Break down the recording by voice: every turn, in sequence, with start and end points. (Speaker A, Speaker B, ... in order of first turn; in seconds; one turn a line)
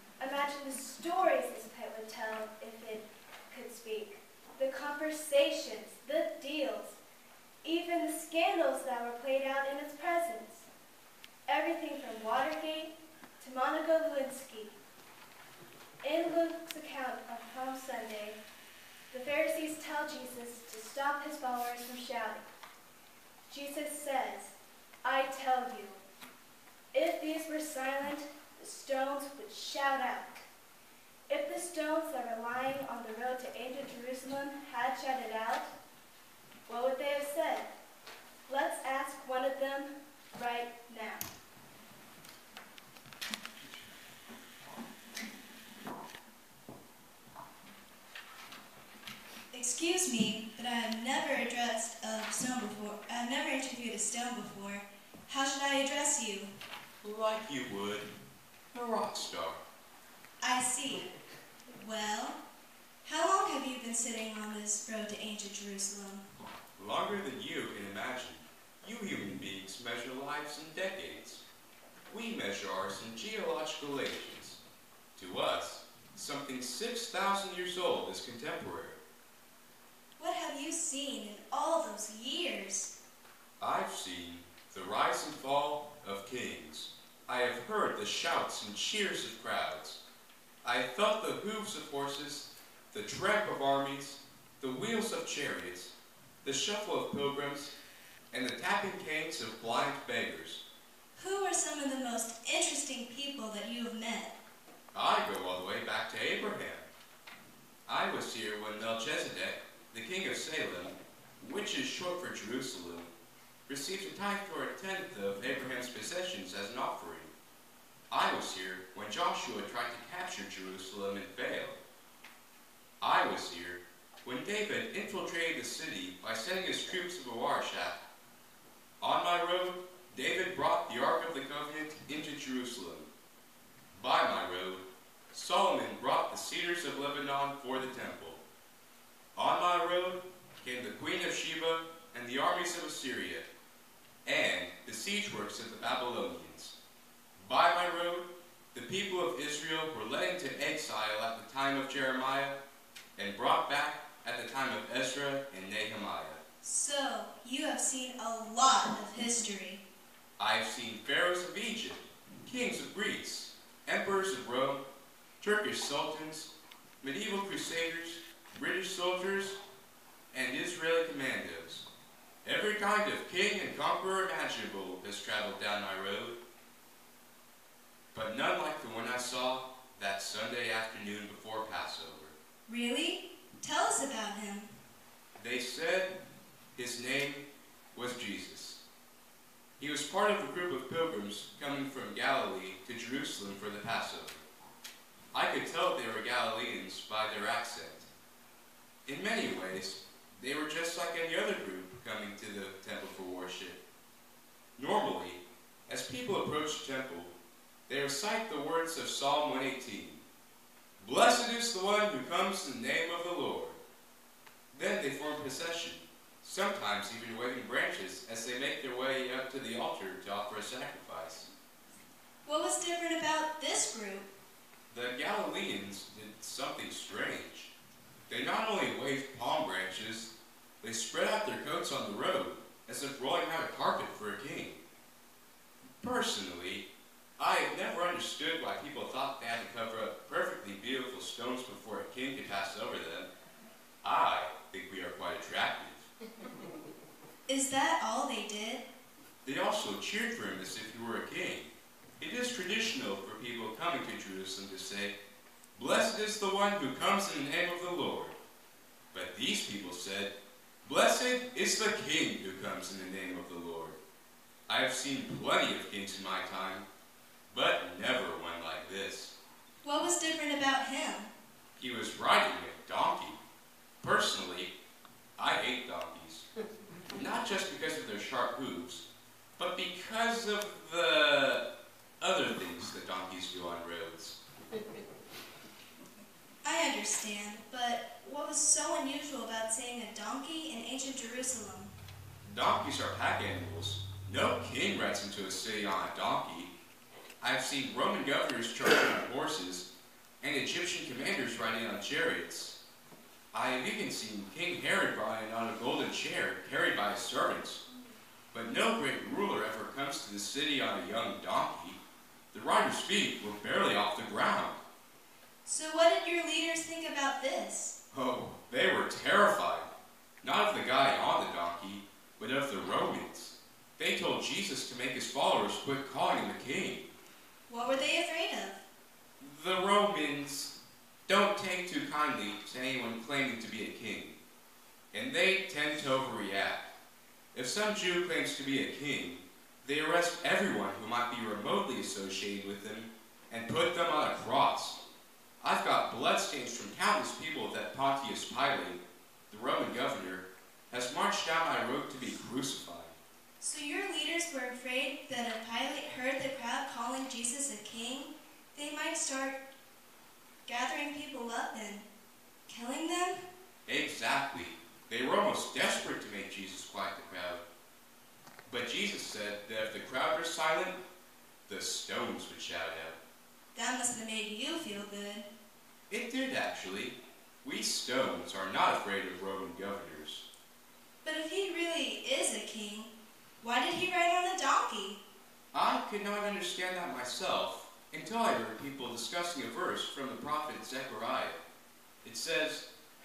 Speaker A: 0.2-7.0
Speaker A: 7.6-10.7
Speaker A: 11.5-14.7
Speaker A: 16.0-18.4
Speaker A: 19.1-22.4
Speaker A: 23.5-24.5
Speaker A: 25.0-26.0
Speaker A: 26.9-30.4
Speaker A: 31.3-35.7
Speaker A: 36.7-37.7
Speaker A: 38.5-41.2
Speaker B: 49.5-56.5
Speaker C: 57.0-58.1
Speaker C: 58.7-59.6
Speaker B: 60.4-61.1
Speaker B: 61.7-62.4
Speaker B: 63.0-66.2
Speaker C: 66.8-71.4
Speaker C: 72.1-74.6
Speaker C: 75.2-79.0
Speaker B: 80.2-82.9
Speaker C: 83.6-90.0
Speaker C: 90.6-95.9
Speaker C: 96.4-97.7
Speaker C: 98.3-100.6
Speaker B: 101.2-104.3
Speaker C: 104.9-106.9
Speaker C: 107.9-113.1
Speaker C: 113.7-117.3
Speaker C: 118.1-121.8
Speaker C: 123.0-128.0
Speaker C: 129.0-133.1
Speaker C: 134.0-138.4
Speaker C: 139.4-143.5
Speaker C: 144.3-146.8
Speaker C: 147.4-152.6
Speaker C: 153.2-156.4
Speaker B: 156.6-159.8
Speaker C: 160.4-164.8
Speaker C: 165.4-169.6
Speaker C: 170.3-171.9
Speaker C: 172.4-176.4
Speaker C: 178.1-182.3
Speaker B: 182.7-184.7
Speaker C: 185.4-186.2
Speaker C: 186.8-188.8
Speaker C: 189.8-194.4
Speaker C: 195.3-198.1
Speaker C: 199.1-203.8
Speaker C: 204.8-207.3
Speaker C: 207.9-210.2
Speaker C: 211.0-213.8
Speaker C: 214.7-221.5
Speaker B: 222.5-224.3
Speaker C: 224.9-227.7
Speaker C: 228.3-234.8
Speaker C: 236.0-236.9
Speaker C: 237.4-243.3
Speaker C: 244.0-246.1
Speaker B: 247.5-248.8
Speaker C: 249.4-255.2
Speaker C: 255.8-258.4
Speaker C: 259.1-260.3
Speaker C: 260.9-264.0
Speaker C: 264.7-266.9
Speaker C: 267.5-269.4
Speaker B: 269.8-271.3
Speaker C: 271.8-273.4
Speaker C: 274.0-274.7
Speaker C: 275.4-276.5
Speaker C: 277.1-279.1
Speaker C: 279.6-281.7
Speaker C: 282.2-284.4
Speaker B: 286.6-291.9
Speaker C: 292.5-296.7
Speaker C: 297.4-299.9
Speaker C: 300.4-302.8
Speaker C: 303.5-307.8
Speaker C: 308.5-312.0
Speaker C: 312.5-314.8
Speaker B: 315.7-317.9
Speaker C: 318.1-327.1
Speaker B: 327.7-328.8
Speaker C: 329.4-330.7
Speaker C: 331.3-334.4
Speaker C: 335.1-336.9
Speaker C: 337.5-345.0
Speaker C: 345.6-353.2
Speaker B: 353.6-359.6
Speaker B: 360.7-362.1
Speaker B: 362.7-363.4
Speaker C: 363.9-367.6
Speaker C: 368.7-371.0
Speaker C: 371.7-373.2
Speaker B: 373.8-375.5
Speaker C: 376.1-380.4
Speaker B: 381.2-383.1
Speaker B: 383.6-385.2
Speaker C: 385.7-391.6
Speaker C: 392.2-392.9